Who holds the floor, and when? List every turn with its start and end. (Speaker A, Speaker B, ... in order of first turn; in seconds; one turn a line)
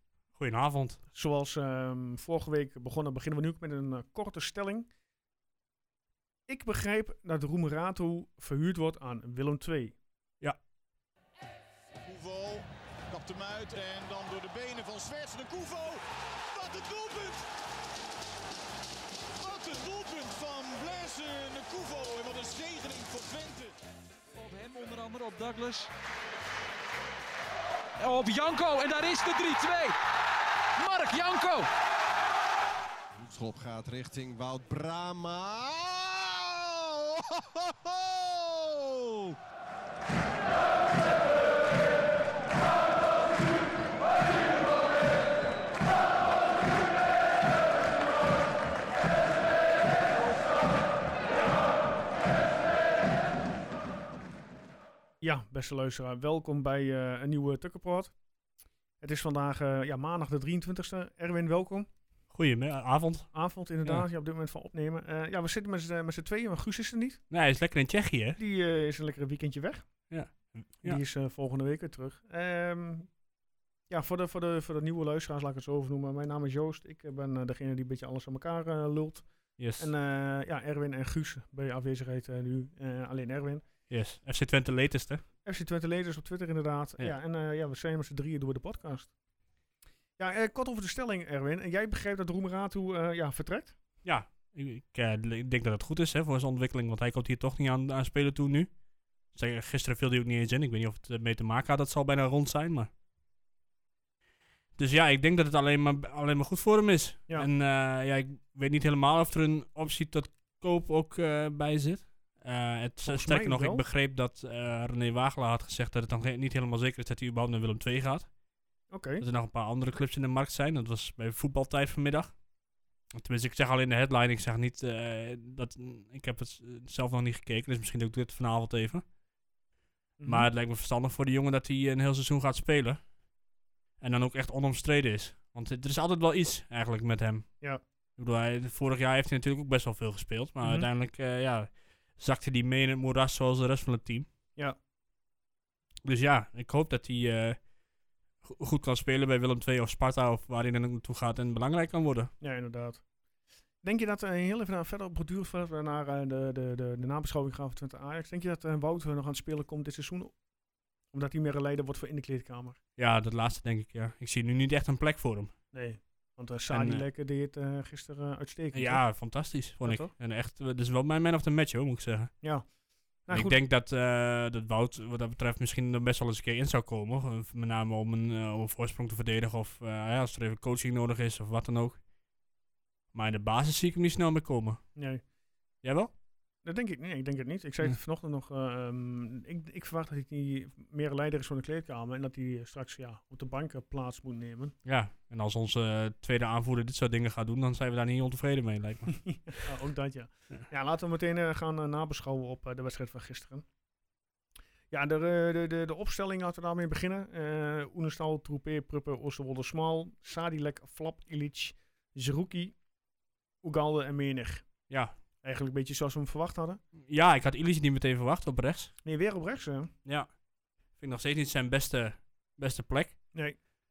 Speaker A: 0.3-1.0
Speaker B: 1.1-4.9
Speaker B: 6.5-10.0
Speaker C: 12.0-17.5
Speaker C: 19.4-23.8
Speaker D: 24.4-25.9
Speaker D: 28.0-30.0
Speaker D: 30.8-31.7
Speaker E: 33.2-39.4
Speaker B: 55.2-58.1
Speaker B: 59.0-61.9
Speaker A: 62.3-63.3
Speaker B: 63.3-67.2
Speaker A: 67.3-68.4
Speaker B: 68.4-69.9
Speaker A: 70.1-71.0
Speaker B: 70.8-73.1
Speaker B: 73.9-83.6
Speaker A: 79.6-79.9
Speaker A: 83.9-85.2
Speaker B: 85.5-89.1
Speaker B: 90.2-93.8
Speaker A: 94.0-98.7
Speaker A: 99.3-102.9
Speaker A: 104.8-118.3
Speaker B: 113.0-113.8
Speaker B: 118.9-119.2
Speaker A: 119.2-122.3
Speaker A: 123.1-129.1
Speaker B: 130.2-130.5
Speaker A: 130.3-133.0
Speaker A: 134.0-137.5
Speaker A: 138.2-144.3
Speaker B: 140.6-140.9
Speaker A: 146.0-147.6
Speaker A: 148.4-152.3
Speaker B: 152.4-153.0
Speaker B: 153.8-160.3
Speaker B: 161.1-162.8
Speaker A: 163.0-165.5
Speaker B: 165.7-169.1
Speaker A: 166.7-167.1
Speaker A: 168.7-172.3
Speaker B: 169.8-170.1
Speaker B: 172.4-172.7
Speaker B: 173.2-173.6
Speaker A: 173.3-182.0
Speaker A: 183.1-184.8
Speaker B: 185.0-185.2
Speaker A: 185.8-186.1
Speaker B: 186.6-194.8
Speaker A: 194.8-199.4
Speaker B: 199.2-203.7
Speaker B: 204.9-212.8
Speaker B: 213.6-214.7
Speaker A: 214.9-215.1
Speaker B: 215.4-216.8
Speaker A: 217.0-218.9
Speaker B: 219.0-219.9
Speaker A: 221.0-223.2